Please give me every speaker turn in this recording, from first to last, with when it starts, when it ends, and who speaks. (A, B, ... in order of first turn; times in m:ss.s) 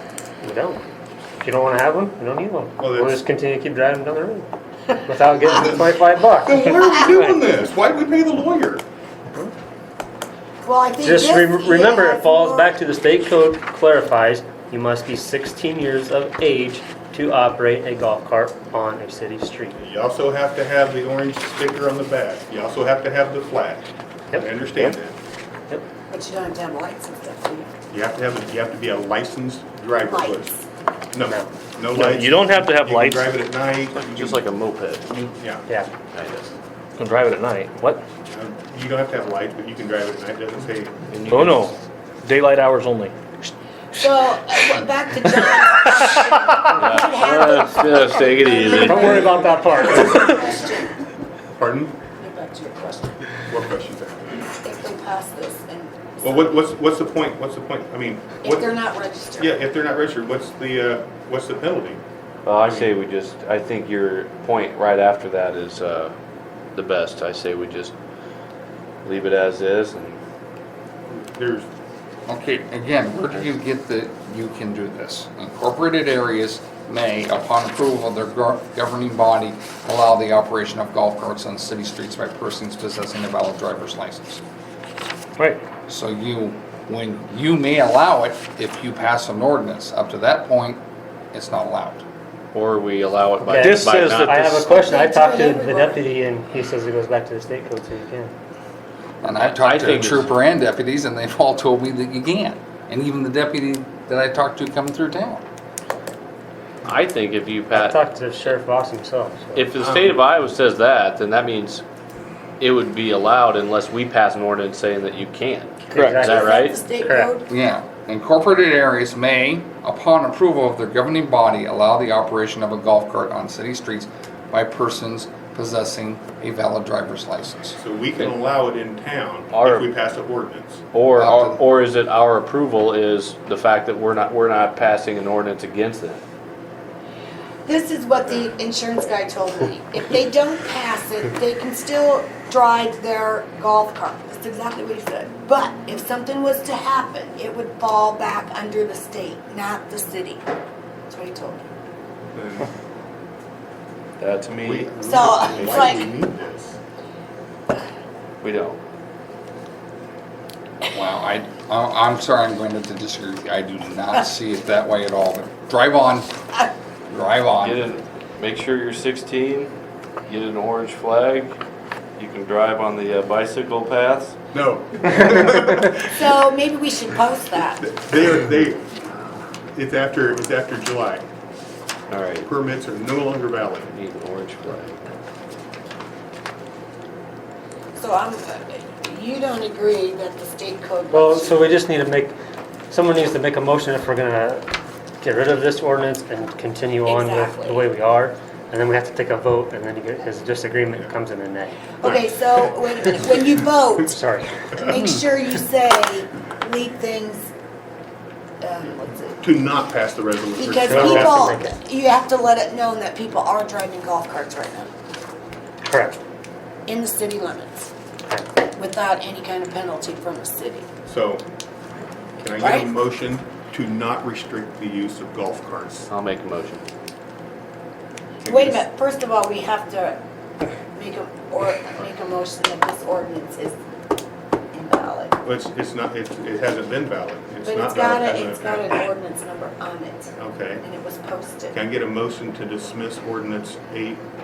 0:00.4-0:00.8 A
0:01.4-0:04.5 A
0:02.8-0:03.2 B
0:05.0-0:06.6 A
0:05.5-0:05.9 B
0:06.4-0:08.8 B
0:06.6-0:07.2 C
0:07.1-0:07.4 D
0:10.6-0:12.7 C
0:11.0-0:19.8 A
0:19.8-0:25.2 B
0:26.1-0:27.7 C
0:27.9-0:30.5 B
0:30.0-0:30.6 C
0:31.1-0:34.4 B
0:31.9-0:33.3 D
0:33.9-0:35.3 E
0:35.3-0:35.6 B
0:36.1-0:36.5 E
0:37.0-0:38.0 D
0:38.3-0:40.9 B
0:41.1-0:41.6 E
0:41.3-0:44.1 D
0:43.9-0:50.9 C
0:46.8-0:49.3 E
0:48.7-0:50.5 A
0:51.6-0:52.0 B
0:52.2-0:53.1 C
0:53.5-0:54.5 B
0:54.5-0:56.6 C
0:56.2-0:58.7 B
0:58.4-0:59.5 C
0:59.4-1:02.0 B
1:02.4-1:06.1 E
1:02.6-1:02.9 B
1:06.7-1:07.9 E
1:09.0-1:10.2 E
1:11.1-1:11.7 B
1:12.3-1:24.4 F
1:25.9-1:32.0 F
1:32.5-1:34.4 E
1:33.4-1:38.3 A
1:33.5-1:34.7 D
1:34.6-1:36.0 C
1:39.2-1:45.4 F
1:39.4-1:40.4 E
1:46.8-1:48.0 E
1:47.7-1:49.7 A
1:49.6-1:51.8 E
1:49.8-1:50.2 B
1:52.6-1:56.8 E
1:55.9-1:57.4 A
1:55.9-1:56.2 D
1:56.2-1:57.5 C
1:57.5-2:07.8 F
2:07.8-2:10.8 B
2:09.5-2:09.9 E
2:10.9-2:16.2 E
2:11.1-2:11.6 F
2:17.6-2:30.4 C
2:31.1-2:31.6 C
2:32.3-2:32.7 B
2:34.2-2:34.9 E
2:34.6-2:36.8 B
2:35.0-2:36.1 C
2:38.4-2:38.8 E
2:40.9-2:46.3 F
2:47.1-2:47.8 F
2:47.6-2:49.7 E
2:50.3-2:51.6 E
2:52.2-2:54.4 E
2:54.5-2:56.2 B
2:56.1-2:57.9 C
2:57.8-2:58.9 B
2:59.7-3:01.2 B
3:02.1-3:02.5 E
3:02.4-3:03.9 B
3:03.9-3:05.0 E
3:08.0-3:11.7 C
3:11.1-3:12.3 A
3:12.9-3:14.6 A
3:15.2-3:22.0 A
3:17.0-3:17.9 C
3:22.0-3:24.2 C
3:24.1-3:24.7 A
3:24.7-3:27.4 C
3:28.6-3:29.4 C
3:29.4-3:31.6 B
3:30.6-3:34.9 C
3:30.9-3:31.8 A
3:35.8-3:36.2 A
3:36.9-3:37.9 C
3:38.7-3:40.8 C
3:41.1-3:41.4 B
3:42.4-3:46.1 B
3:42.6-3:42.9 C
3:46.1-3:46.9 E
3:48.4-3:48.8 B
3:48.4-3:50.2 C
3:50.9-3:53.8 C
3:54.7-3:55.4 C
3:55.4-3:59.0 B
3:57.6-4:01.8 C
4:00.4-4:00.8 B
4:01.7-4:04.2 B